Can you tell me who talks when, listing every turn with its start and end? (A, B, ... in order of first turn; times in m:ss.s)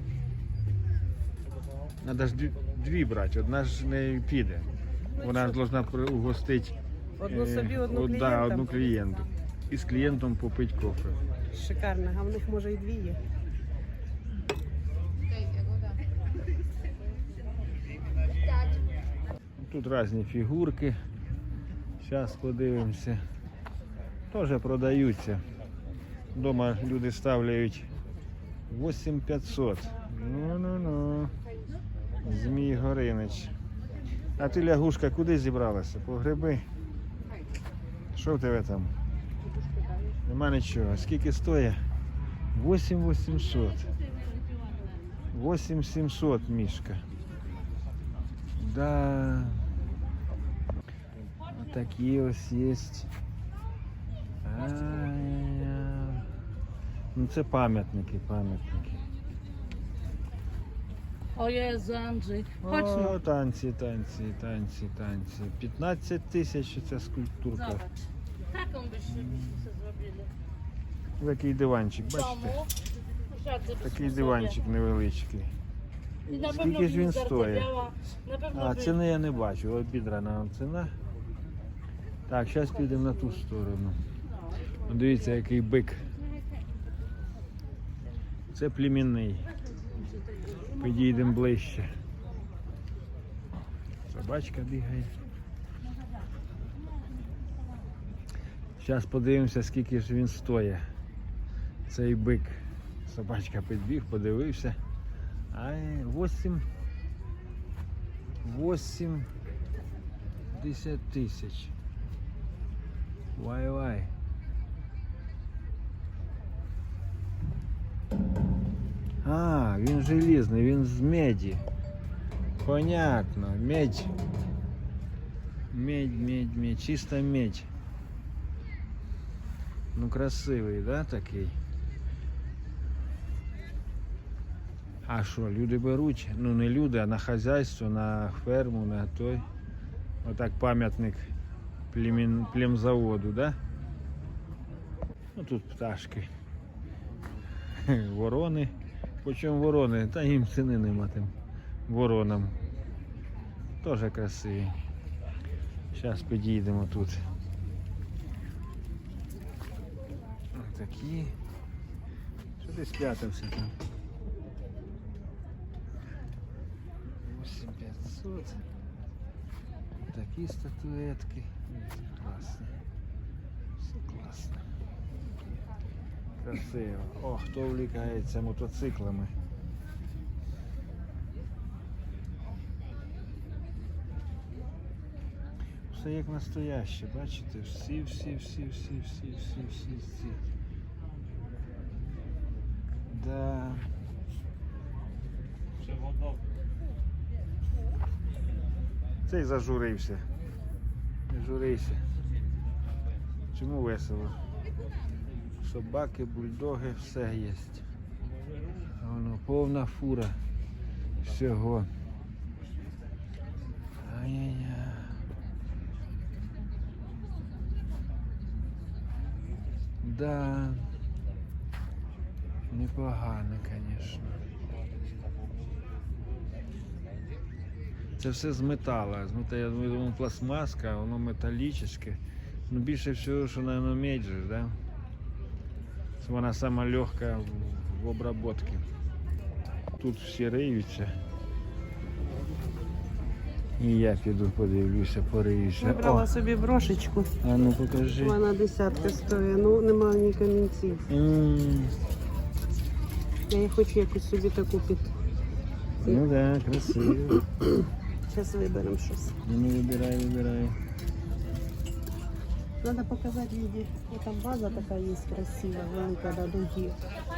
0:02.0-0:06.8 A
0:07.2-0:08.8 B
0:07.3-0:11.2 A
0:11.5-0:13.2 B
0:19.6-0:21.0 A
0:22.0-0:23.2 A
0:24.3-0:25.4 A
0:26.3-0:27.9 A
0:28.7-0:31.3 A
0:32.2-0:33.5 A
0:34.4-0:36.6 A
0:38.1-0:38.9 A
0:40.2-0:41.8 A
0:42.6-0:43.9 A
0:45.3-0:47.0 A
0:48.6-0:49.7 A
0:51.5-0:53.1 A
0:54.4-0:56.3 A
0:57.1-0:59.0 A
1:01.4-1:03.2 C
1:02.6-1:07.8 A
1:07.5-1:10.3 C
1:09.1-1:09.6 A
1:11.2-1:12.6 A
1:12.1-1:12.7 C
1:13.3-1:14.6 C
1:13.8-1:15.5 A
1:16.2-1:18.9 C
1:16.4-1:17.7 A
1:18.5-1:20.9 A
1:22.3-1:24.0 A
1:24.8-1:26.0 A
1:28.5-1:29.5 A
1:30.7-1:31.9 A
1:34.1-1:35.1 A
1:38.8-1:40.8 A
1:41.9-1:44.8 A
1:45.5-1:46.6 A
1:48.4-1:49.3 A
1:50.5-1:51.7 A
1:53.4-1:54.1 A
1:59.2-2:01.6 A
2:02.6-2:04.1 A
2:05.7-2:07.7 A
2:09.9-2:11.6 A
2:15.1-2:19.5 A
2:20.2-2:21.3 A
2:21.9-2:23.6 A
2:25.4-2:26.3 A
2:27.8-2:31.3 A
2:31.9-2:32.6 A
2:33.8-2:34.8 A
2:35.9-2:37.2 A
2:40.5-2:41.4 A
2:42.6-2:43.7 A
2:47.2-2:48.6 A
2:50.1-2:52.8 A
2:53.8-2:54.6 A
2:56.4-2:59.3 A
3:05.9-3:10.4 A
3:13.1-3:13.9 A
3:19.3-3:20.2 A
3:21.3-3:22.0 A
3:23.5-3:24.4 A
3:25.6-3:27.8 A
3:29.0-3:30.4 A
3:31.2-3:31.9 A
3:34.0-3:35.2 A
3:40.0-3:40.9 A
3:42.7-3:44.4 A
3:48.2-3:54.8 A
3:56.2-3:58.9 A
4:00.0-4:01.2 A
4:03.8-4:06.3 A
4:05.8-4:07.3 B
4:07.4-4:08.4 A
4:08.2-4:11.0 B
4:11.1-4:12.0 A
4:13.5-4:15.1 B
4:16.0-4:17.4 A
4:18.3-4:19.4 B
4:19.4-4:20.8 A
4:22.8-4:27.0 B